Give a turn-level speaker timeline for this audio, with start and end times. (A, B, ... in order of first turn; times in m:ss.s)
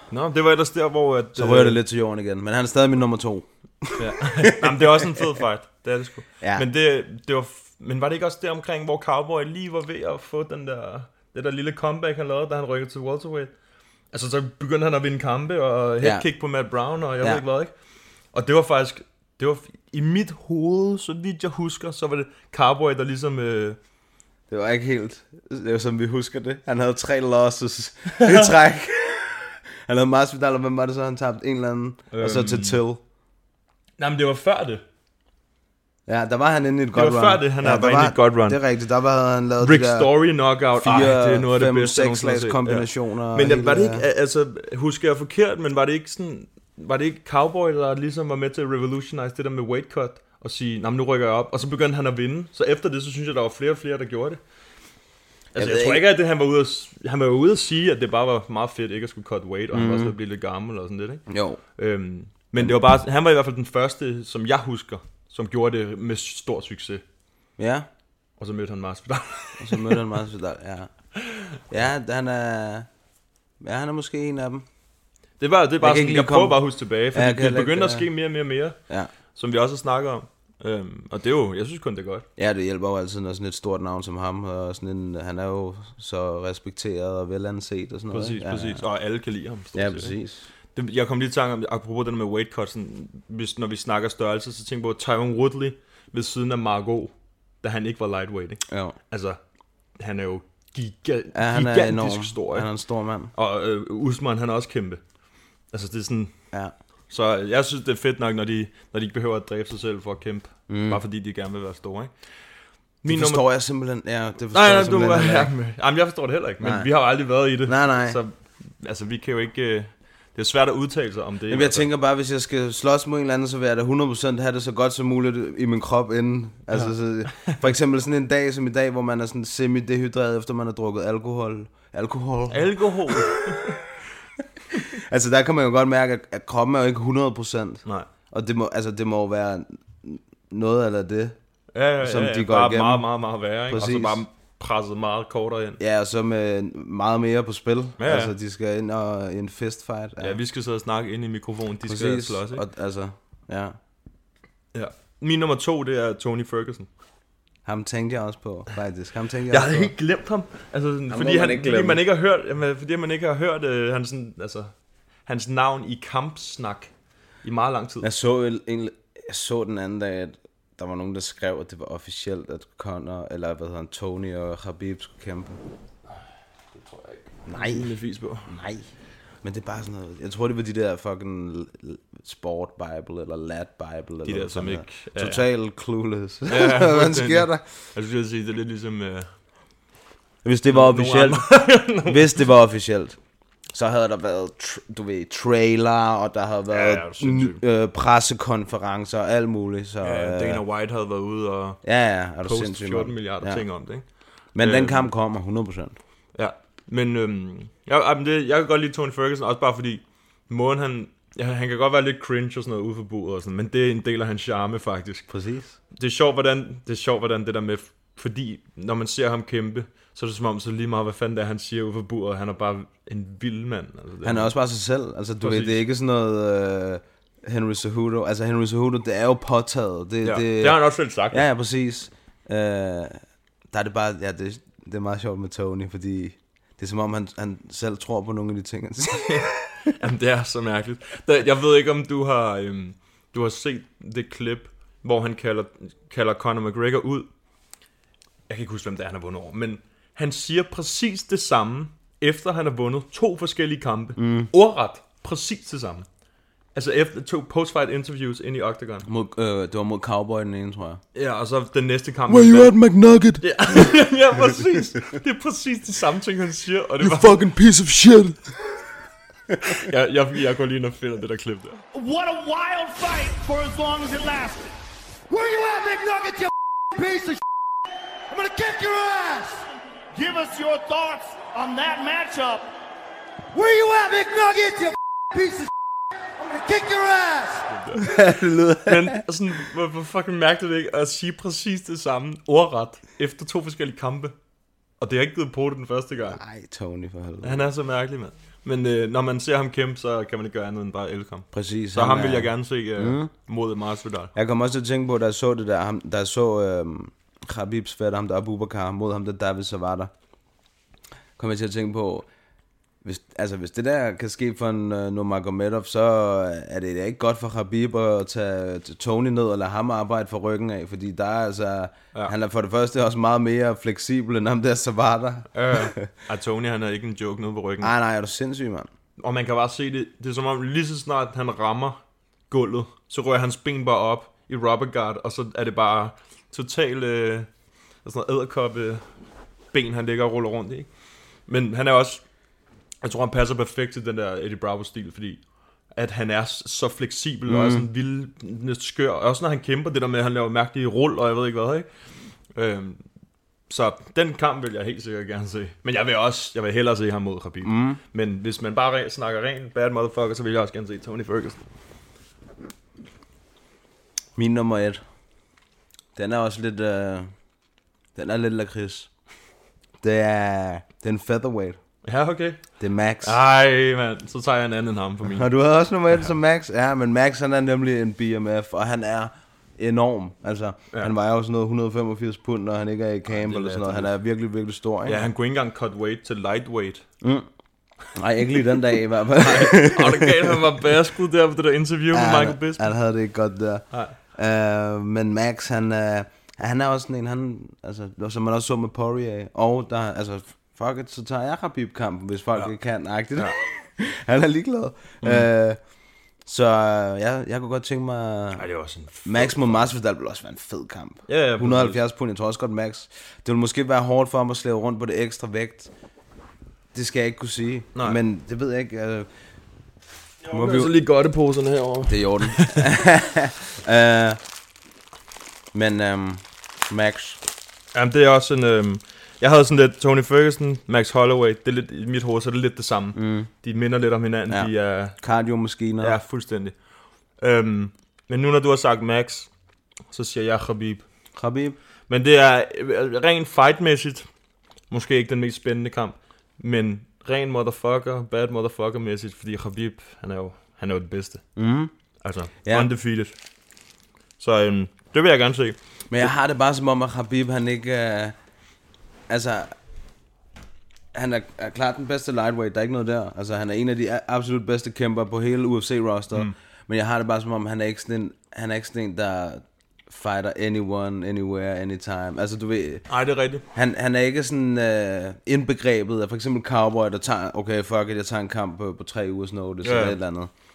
0:00.1-0:01.8 A
0:01.4-0:05.0 B
0:04.0-0:13.5 A
0:06.4-0:06.7 B
0:14.1-0:17.7 A
0:16.0-0:16.3 B
0:18.3-0:23.8 A
0:24.5-0:33.0 B
0:28.2-0:28.5 A
0:32.1-0:32.8 A
0:34.0-0:34.8 A
0:36.1-0:40.1 B
0:36.9-0:38.6 A
0:39.6-0:54.4 A
0:40.8-0:44.1 B
0:55.5-1:01.2 A
0:55.6-0:56.1 B
0:59.7-1:00.2 B
1:01.3-1:01.6 B
1:01.8-1:07.0 A
1:07.6-1:07.9 B
1:08.4-1:10.0 A
1:09.6-1:10.9 B
1:11.7-1:12.9 B
1:13.6-1:14.6 B
1:15.4-1:18.8 A
1:15.8-1:18.1 B
1:19.3-1:22.2 A
1:22.4-1:28.8 B
1:28.1-1:30.2 A
1:29.7-1:30.5 B
1:30.8-1:39.4 A
1:38.7-1:39.0 B
1:40.0-1:42.7 A
1:41.3-1:43.3 B
1:43.3-1:45.0 A
1:45.7-1:46.3 A
1:47.1-1:52.1 A
1:50.7-1:51.0 B
1:53.0-1:53.4 A
1:53.1-1:55.5 B
1:54.5-2:01.9 A
1:56.6-1:56.9 B
1:57.6-1:58.2 B
2:01.5-2:13.3 B
2:06.7-2:07.6 A
2:12.5-2:13.8 A
2:14.9-2:21.4 B
2:21.7-2:25.8 A
2:22.0-2:23.1 B
2:23.7-2:24.2 B
2:25.8-2:30.4 B
2:28.0-2:28.3 A
2:30.2-2:32.6 A
2:31.9-2:33.8 B
2:34.7-2:36.9 A
2:37.6-2:39.9 B
2:39.5-2:44.7 A
2:41.1-2:42.0 B
2:45.3-2:46.9 A
2:47.4-2:48.1 A
2:48.0-2:55.6 B
2:56.7-2:58.5 A
2:57.5-2:57.9 B
2:58.5-2:58.9 B
2:59.4-3:07.6 B
3:04.2-3:05.5 A
3:06.5-3:09.3 A
3:10.4-3:13.2 B
3:10.7-3:12.4 A
3:13.7-3:20.6 B
3:16.7-3:17.6 A
3:20.0-3:21.8 A
3:21.8-3:23.6 B
3:22.4-3:24.1 A
3:24.6-3:26.0 B
3:24.6-3:25.1 A
3:26.4-3:35.3 A
3:35.3-3:35.8 B
3:35.9-3:44.5 A
3:44.2-3:53.2 B
3:45.4-3:45.8 A
3:50.2-3:51.5 A
3:53.7-3:59.5 B
3:59.3-4:07.3 A
4:08.5-4:16.1 A
4:14.2-4:14.5 B
4:16.8-4:19.1 A
4:19.1-4:21.0 B
4:21.2-4:22.8 A
4:22.3-4:24.0 B
4:23.4-4:27.3 A
4:27.0-4:28.5 B
4:29.6-4:31.8 A
4:31.9-4:34.7 C
4:35.3-4:37.4 D
4:38.3-4:39.7 D
4:40.1-4:42.7 C
4:43.5-4:45.7 D
4:46.4-4:47.7 D
4:47.7-4:48.1 A
4:48.0-4:49.2 B
4:48.8-4:54.4 A
4:55.0-4:56.4 A
4:56.2-4:57.7 B
4:57.4-5:04.3 A
5:01.5-5:03.3 B
5:04.4-5:10.1 B
5:11.4-5:12.3 B
5:13.0-5:26.1 B
5:25.5-5:27.9 A
5:27.8-5:28.9 B
5:29.2-5:32.0 A
5:32.5-5:37.5 A
5:38.0-5:39.0 A
5:39.7-5:40.9 A
5:41.5-5:42.2 A
5:43.0-5:45.4 A
5:46.0-5:51.9 A
5:47.5-5:47.9 B
5:52.6-5:53.0 A
5:53.7-6:01.6 A
5:57.6-5:58.0 B
6:04.4-6:05.0 B
6:06.2-6:07.3 B
6:08.2-6:09.1 B
6:10.0-6:11.8 B
6:12.0-6:12.6 A
6:12.8-6:13.4 B
6:13.2-6:15.5 A
6:15.2-6:25.2 B
6:23.3-6:24.1 A
6:25.1-6:27.0 A
6:27.2-6:27.5 B
6:28.2-6:30.6 B
6:29.4-6:32.9 A
6:32.1-6:45.8 B
6:45.2-6:45.5 A
6:46.5-6:48.7 B
6:48.6-6:49.9 A
6:49.2-6:55.9 B
6:51.3-6:52.0 A
6:56.9-6:59.3 B
7:00.4-7:02.8 A
7:00.5-7:01.0 B
7:02.1-7:04.4 B
7:05.7-7:07.4 B
7:07.9-7:15.2 A
7:13.2-7:13.5 B
7:14.5-7:16.2 B
7:16.0-7:16.8 A
7:17.4-7:19.5 A
7:20.1-7:21.0 A
7:21.4-7:21.8 B
7:22.1-7:24.3 A
7:24.9-7:31.4 A
7:31.6-7:31.9 B
7:32.2-7:33.4 A
7:32.6-7:32.9 B
7:34.4-7:35.8 A
7:36.1-7:38.4 B
7:39.3-7:39.7 B
7:41.1-7:53.0 B
7:53.1-7:53.6 A
7:53.7-8:00.5 B
7:59.8-8:00.2 A